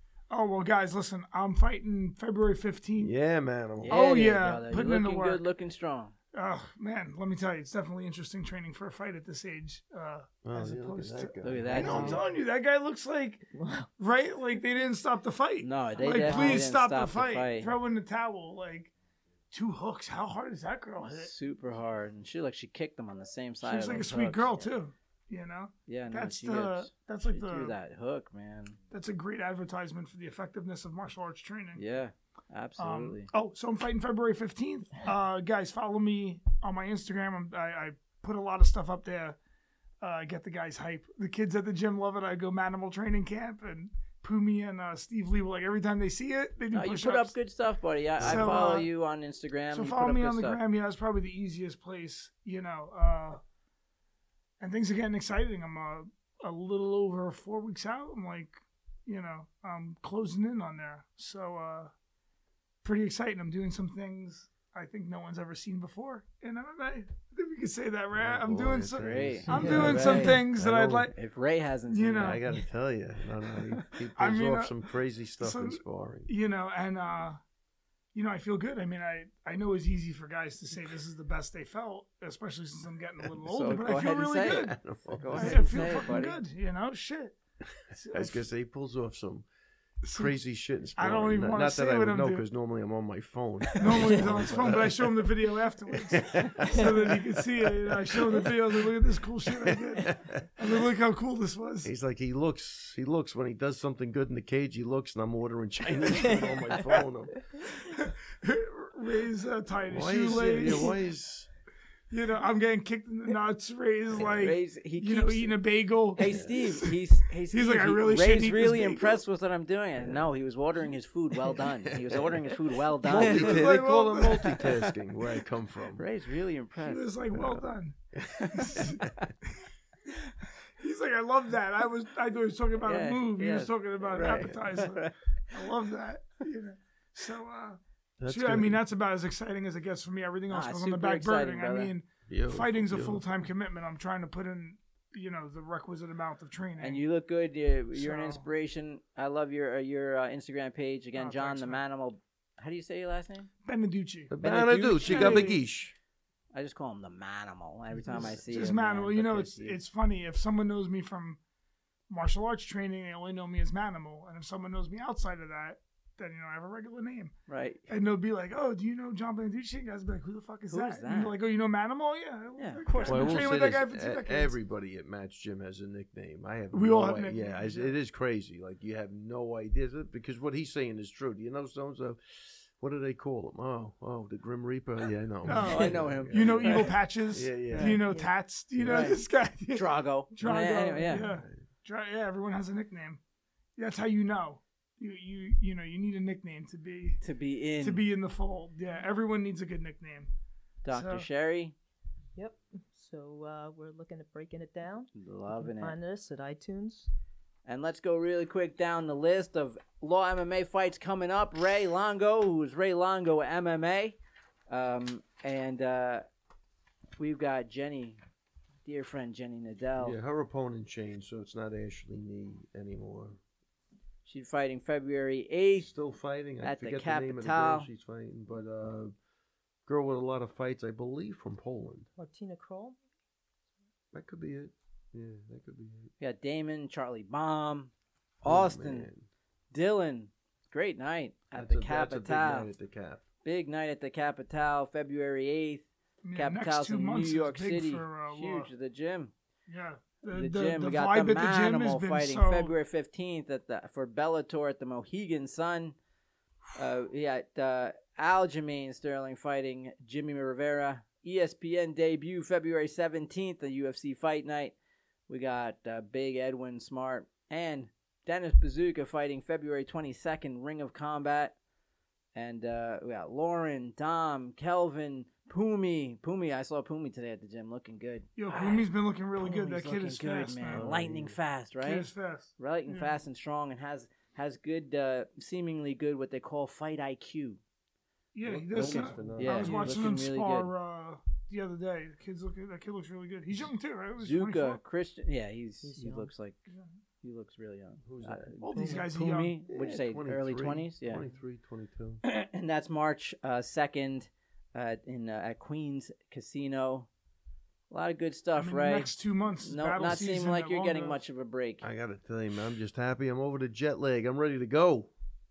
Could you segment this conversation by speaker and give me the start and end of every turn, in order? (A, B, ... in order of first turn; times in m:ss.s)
0:00.3-0:03.1 A
0:03.0-0:04.0 B
0:03.8-0:06.2 C
0:03.9-0:05.5 A
0:06.3-0:13.5 A
0:10.4-0:12.3 B
0:11.4-0:12.2 C
0:13.5-0:13.9 D
0:14.0-0:18.9 A
0:15.6-0:17.7 C
0:16.0-0:16.7 D
0:19.5-0:21.3 A
0:21.1-0:24.7 C
0:23.6-0:27.8 A
0:25.9-0:28.8 C
0:28.9-0:31.8 A
0:31.8-0:33.3 C
0:32.8-0:39.4 A
0:40.0-0:47.4 A
0:46.7-0:50.6 C
0:48.2-0:48.8 B
0:48.2-0:48.9 A
0:49.7-0:53.4 A
0:54.6-1:01.9 A
1:02.8-1:11.1 A
1:08.2-1:11.1 B
1:09.0-1:10.3 C
1:09.9-1:10.4 D
1:11.1-1:12.4 C
1:11.9-1:12.5 A
1:12.2-1:16.3 B
1:14.2-1:14.8 A
1:15.4-1:17.4 A
1:18.1-1:24.8 A
1:23.5-1:26.4 C
1:24.5-1:26.1 B
1:25.3-1:27.4 A
1:27.9-1:28.4 A
1:28.1-1:29.5 B
1:30.0-1:30.3 A
1:30.1-1:38.9 B
1:31.0-1:32.5 A
1:33.8-1:41.9 A
1:39.5-1:40.8 B
1:41.8-1:47.5 B
1:46.2-1:46.5 D
1:47.8-1:51.0 A
1:49.9-1:51.5 B
1:52.1-1:59.2 A
1:54.2-1:55.6 C
1:56.1-2:03.7 C
1:56.2-1:56.6 B
2:00.0-2:00.2 B
2:01.6-2:06.0 B
2:03.1-2:04.6 A
2:04.4-2:04.9 C
2:06.0-2:07.1 C
2:06.8-2:08.0 A
2:07.3-2:09.3 B
2:08.4-2:08.9 C
2:08.5-2:09.5 A
2:10.8-2:27.0 A
2:12.8-2:15.1 C
2:14.1-2:14.6 B
2:18.2-2:18.8 B
2:20.5-2:21.9 C
2:22.3-2:23.2 B
2:26.8-2:33.5 C
2:27.9-2:28.4 A
2:31.2-2:31.8 A
2:33.6-2:34.3 A
2:34.3-2:36.0 B
2:34.4-2:35.5 C
2:35.0-2:35.6 A
2:36.5-2:39.8 C
2:38.1-2:41.4 A
2:38.1-2:38.7 B
2:42.1-2:47.4 A
2:47.5-2:47.8 C
2:47.9-2:54.6 A
2:50.7-2:51.4 C
2:52.6-2:53.6 C
2:53.1-3:08.0 B
2:56.7-2:57.9 A
3:05.4-3:07.0 C
3:05.4-3:13.2 A
3:07.9-3:08.3 D
3:08.8-3:09.1 B
3:08.9-3:09.2 C
3:09.7-3:11.3 C
3:13.8-3:17.2 A
3:17.2-3:18.0 C
3:17.8-3:20.3 A
3:20.8-3:21.8 C
3:20.9-3:21.3 A
3:22.4-3:27.1 D
3:25.2-3:26.0 C
3:27.7-3:34.2 C
3:34.7-3:36.2 C
3:37.2-3:38.2 C
3:38.8-3:40.2 C
3:40.0-3:43.4 B
3:44.3-3:45.9 C
3:45.8-3:49.2 B
3:46.6-3:47.9 C
3:49.9-3:52.1 B
3:52.2-3:53.0 D
3:54.1-3:56.1 B
3:56.2-3:57.9 C
3:58.4-3:59.3 B
3:58.4-3:59.1 C
3:59.7-4:02.7 C
4:01.5-4:03.2 B
4:03.4-4:09.3 C
4:06.2-4:08.7 A
4:09.7-4:12.8 A
4:10.3-4:16.0 C
4:16.8-4:24.8 C
4:25.3-4:31.6 C
4:32.3-4:38.9 C
4:38.4-4:40.9 A
4:39.4-4:42.1 C
4:40.7-4:41.4 B
4:41.8-4:43.1 A
4:42.6-4:47.6 C
4:48.3-4:54.8 A
4:48.4-4:50.0 B
4:48.8-4:50.7 C
4:54.2-4:56.6 C
4:55.8-4:56.3 D
4:57.2-5:01.3 C
4:58.0-4:58.6 B
4:58.6-4:59.6 A
4:58.7-4:59.1 D
4:59.1-5:02.2 B
5:02.2-5:07.1 C
5:07.9-5:09.1 C
5:08.6-5:11.2 A
5:09.6-5:11.9 C
5:11.8-5:15.1 B